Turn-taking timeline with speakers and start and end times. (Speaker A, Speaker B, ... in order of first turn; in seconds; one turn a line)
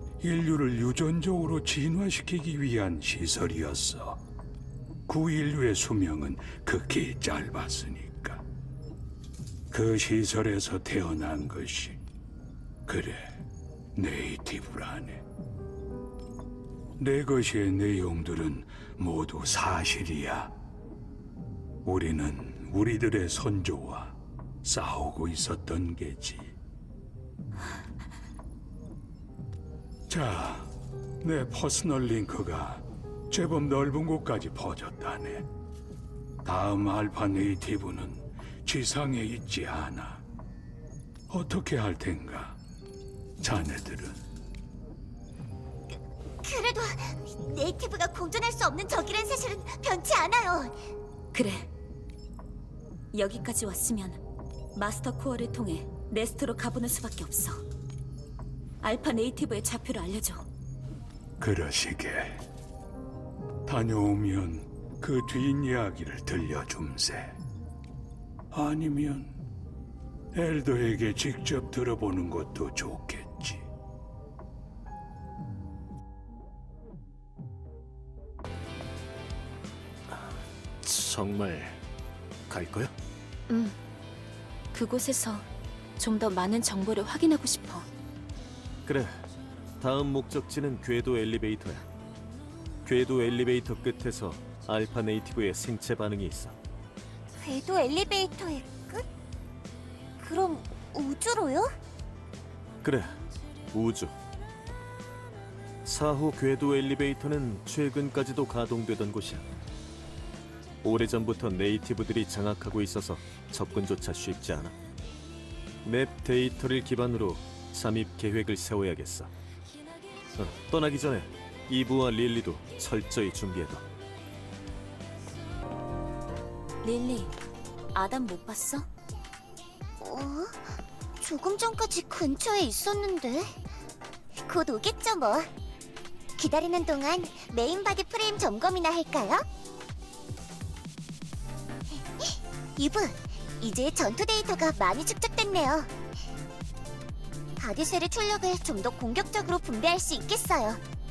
Speaker A: 0.2-4.2
Speaker A: 5.1-8.4
Speaker A: 9.7-12.0
Speaker A: 12.9-13.4
Speaker A: 13.9-15.2
Speaker A: 17.0-20.5
Speaker A: 21.9-26.6
Speaker A: 30.1-35.5
Speaker A: 36.4-40.2
Speaker A: 41.3-42.6
Speaker A: 43.4-44.2
Speaker B: 45.9-50.8
Speaker C: 51.3-51.7
Speaker C: 53.1-54.2
Speaker C: 54.8-57.6
Speaker C: 58.8-60.5
Speaker A: 61.4-62.4
Speaker A: 63.6-67.4
Speaker A: 68.5-69.4
Speaker A: 70.3-73.7
Speaker D: 80.1-81.8
Speaker D: 82.5-82.9
Speaker C: 83.5-83.8
Speaker C: 84.7-85.5
Speaker C: 86.0-87.9
Speaker D: 88.9-89.2
Speaker D: 89.8-91.8
Speaker D: 92.8-96.5
Speaker B: 97.4-99.0
Speaker B: 100.2-101.7
Speaker D: 102.8-103.2
Speaker D: 103.7-104.1
Speaker D: 105.9-109.4
Speaker D: 110.8-114.7
Speaker D: 115.8-119.3
Speaker D: 120.4-123.8
Speaker C: 126.8-127.3
Speaker C: 127.9-128.9
Speaker B: 130.0-133.6
Speaker B: 134.4-135.5
Speaker B: 136.4-139.4
Speaker B: 141.9-145.9
Speaker B: 147.6-150.8